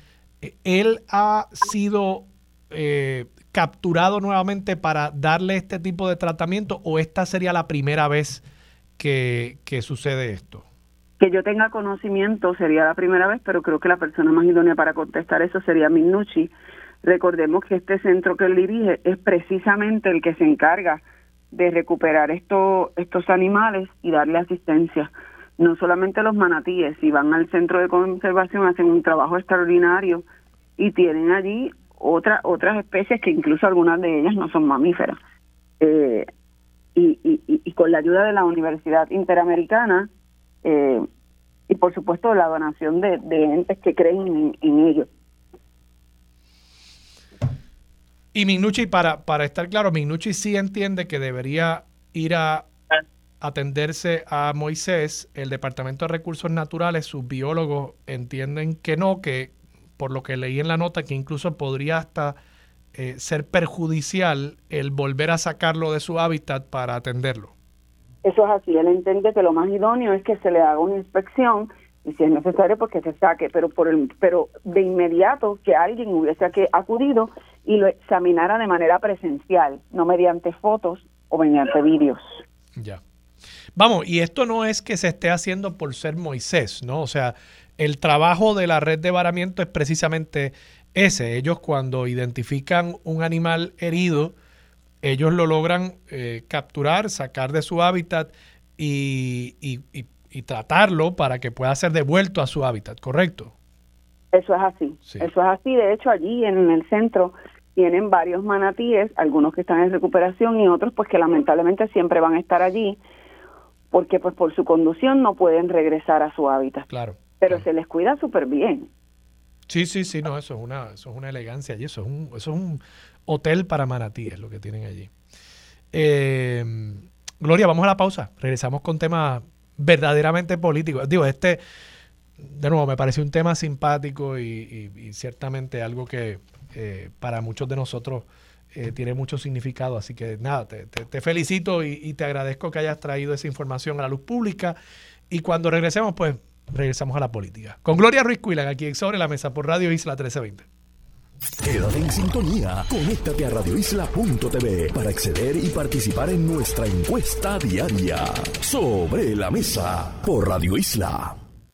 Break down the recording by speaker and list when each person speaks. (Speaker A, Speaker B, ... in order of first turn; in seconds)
Speaker A: 0.4-8.4, 9.0-10.7, 48.3-62.4, 62.9-67.5, 82.8-83.0, 83.8-94.3, 95.0-103.5, 116.9-117.7, 119.7-125.1, 125.9-131.6, 132.4-144.8, 145.3-150.7
Speaker B: 11.2-30.2, 30.8-35.2, 35.8-36.3, 37.0-40.1, 40.6-41.1, 41.7-45.1, 68.2-82.4, 104.3-113.0, 113.9-116.9, 117.4-118.9
Speaker C: 151.6-161.4